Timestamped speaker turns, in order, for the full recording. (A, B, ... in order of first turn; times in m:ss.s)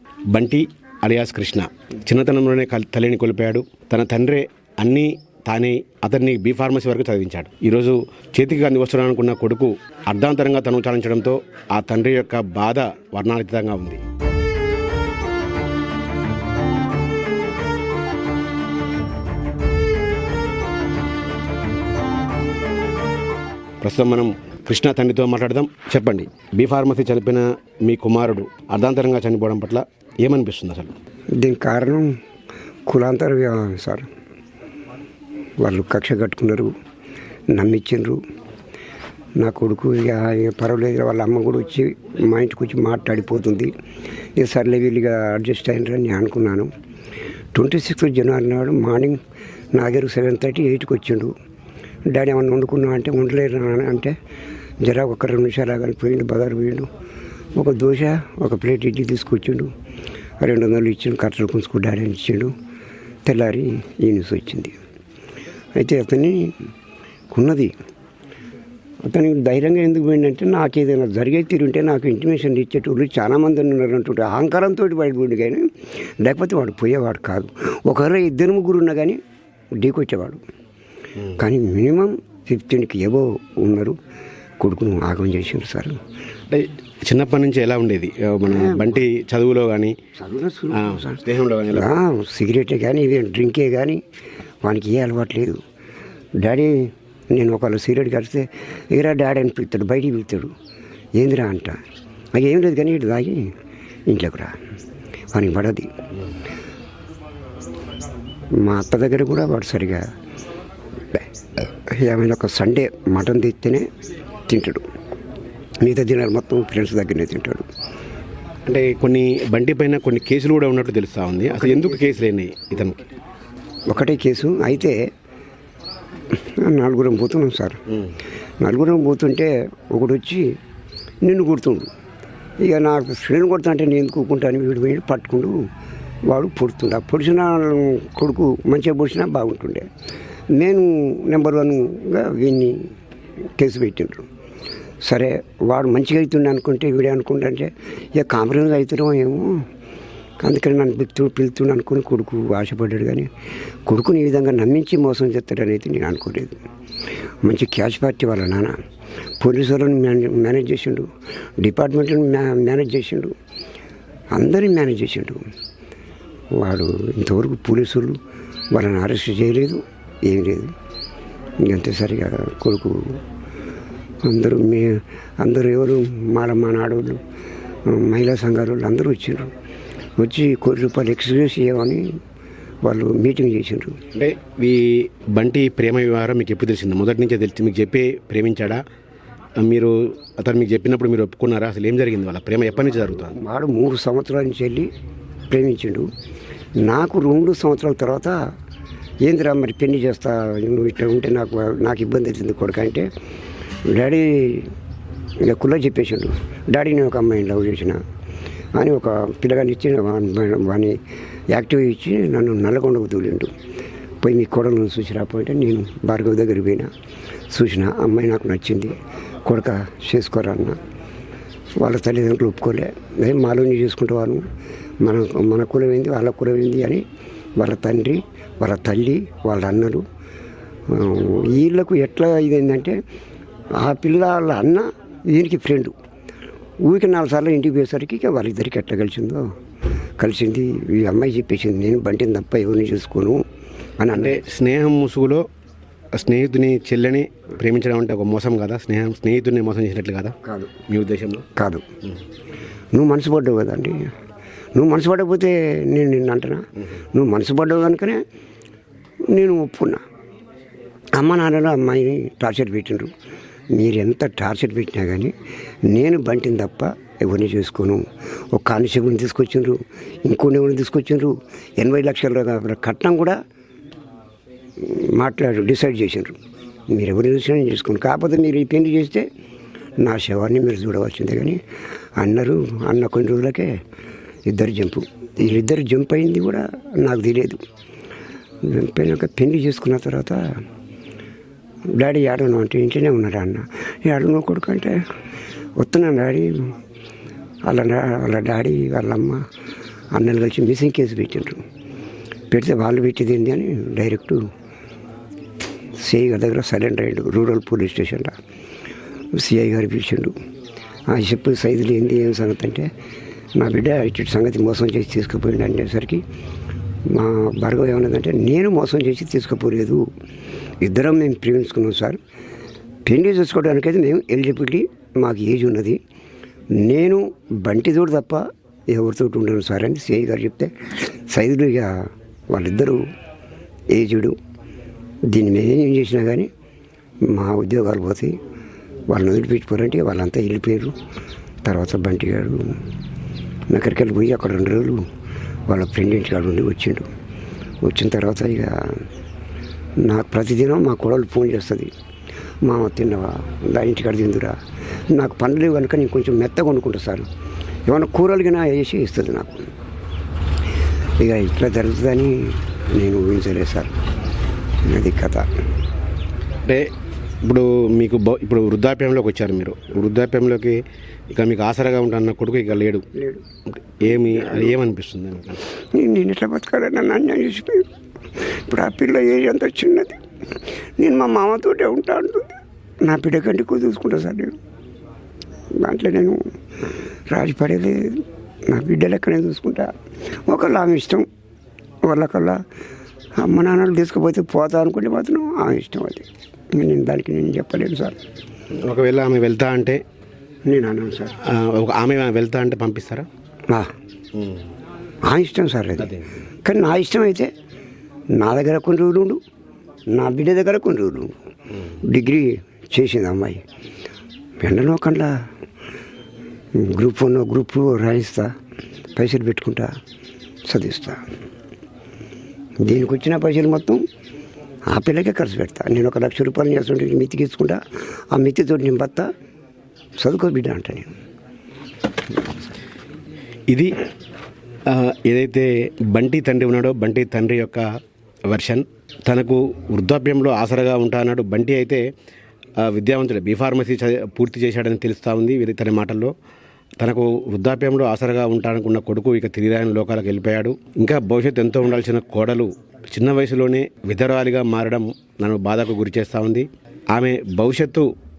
0:00.3-0:14.0 A
0:23.8-0:30.9 A
0:31.4-0:32.1 B
0:32.9-0:34.1 B
0:35.6-0:36.7 B
0:37.5-0:38.2 B
0:39.4-0:43.7 B
0:44.4-0:46.7 B
0:47.5-0:49.2 B
0:49.7-0:51.3 B
0:52.1-0:54.1 B
0:54.8-0:56.9 B
0:57.6-0:59.7 B
1:00.4-1:02.5 B
1:03.2-1:04.7 B
1:05.8-1:06.6 B
1:07.3-1:07.7 B
1:09.0-1:19.2 B
1:19.8-1:20.4 B
1:21.3-1:24.0 B
1:24.6-1:26.0 B
1:26.5-1:30.0 A
1:28.5-1:28.9 B
1:30.2-1:34.0 B
1:30.7-1:31.9 A
1:34.6-1:35.6 B
1:36.4-1:40.5 B
1:41.2-1:41.8 B
1:42.3-1:43.4 B
1:44.1-1:44.6 B
1:45.3-1:45.9 B
1:48.6-1:50.0 B
1:51.1-1:53.8 B
1:54.5-1:54.8 B
1:55.8-1:57.7 B
1:58.6-2:03.0 A
2:01.7-2:02.0 B
2:03.9-2:05.0 B
2:06.4-2:07.8 B
2:08.6-2:10.5 B
2:11.2-2:11.9 B
2:12.6-2:15.6 B
2:16.3-2:19.8 B
2:20.5-2:22.9 B
2:23.6-2:24.3 B
2:25.0-2:29.6 B
2:30.4-2:33.3 B
2:33.9-2:36.6 B
2:37.4-2:38.8 B
2:39.4-2:41.1 B
2:41.6-2:43.3 B
2:44.3-2:45.4 B
2:46.6-2:48.2 B
2:48.7-2:50.7 B
2:51.6-2:53.2 B
2:54.2-2:57.2 B
2:57.9-2:59.5 B
3:00.2-3:02.0 B
3:02.8-3:04.0 B
3:04.1-3:08.8 A
3:09.6-3:13.4 A
3:13.2-3:14.9 B
3:15.5-3:16.1 B
3:16.8-3:18.4 B
3:19.2-3:23.1 B
3:23.9-3:24.7 B
3:25.4-3:28.0 B
3:28.8-3:31.0 B
3:31.5-3:33.5 B
3:34.2-3:36.9 B
3:37.5-3:40.8 B
3:41.8-3:44.4 B
3:45.0-3:47.0 B
3:47.6-3:50.0 B
3:50.9-3:53.0 B
3:53.7-3:55.9 B
3:56.8-3:59.4 B
4:00.2-4:03.4 B
4:04.0-4:04.4 B
4:04.1-4:05.4 A
4:06.1-4:10.4 A
4:10.4-4:10.7 B
4:10.9-4:11.5 A
4:11.6-4:11.8 B
4:12.9-4:14.1 B
4:14.7-4:18.2 B
4:19.3-4:20.0 B
4:21.1-4:23.1 B
4:23.7-4:25.3 B
4:25.9-4:33.4 B
4:34.8-4:36.4 B
4:36.9-4:39.3 B
4:40.0-4:41.6 B
4:42.2-4:43.7 B
4:44.5-4:47.6 B
4:48.6-4:50.4 B
4:52.0-4:55.0 B
4:55.8-4:56.7 B
4:57.6-4:59.4 B
5:00.1-5:01.6 B
5:02.5-5:04.4 B
5:06.0-5:08.3 B
5:09.3-5:10.3 B
5:11.1-5:12.9 B
5:13.6-5:16.2 B
5:17.1-5:20.0 B
5:20.8-5:22.2 B
5:23.0-5:26.0 B
5:26.7-5:31.9 B
5:32.5-5:33.0 B
5:33.9-5:34.3 B
5:35.3-5:36.5 B
5:37.2-5:38.3 B
5:39.1-5:41.0 B
5:41.6-5:42.7 B
5:43.7-5:45.0 B
5:45.7-5:47.1 B
5:47.8-5:49.0 B
5:50.0-5:51.9 B
5:52.6-5:54.6 B
5:55.1-5:57.3 B
5:57.9-5:59.7 B
6:01.2-6:03.9 B
6:04.8-6:05.5 B
6:07.4-6:10.8 A
6:11.3-6:13.0 A
6:13.2-6:13.4 B
6:13.8-6:15.6 A
6:14.1-6:14.7 B
6:15.9-6:17.9 B
6:18.4-6:20.2 B
6:21.0-6:24.6 B
6:25.8-6:26.4 B
6:27.3-6:29.9 B
6:30.4-6:31.2 B
6:32.0-6:32.6 B
6:33.4-6:38.2 B
6:38.8-6:40.0 A
6:40.7-6:41.3 B
6:41.4-6:43.3 A
6:44.3-6:44.6 A
6:45.2-6:47.5 B
6:46.0-6:46.2 A
6:48.4-6:49.4 B
6:50.1-6:51.3 B
6:51.8-6:53.6 B
6:54.6-6:55.3 B
6:56.8-6:58.5 B
6:59.1-6:59.9 B
7:00.7-7:01.2 B
7:02.8-7:04.0 B
7:04.9-7:09.3 B
7:10.2-7:11.1 B
7:13.7-7:13.9 A
7:14.9-7:17.8 A
7:18.5-7:22.0 A
7:22.8-7:26.3 A
7:27.0-7:38.1 A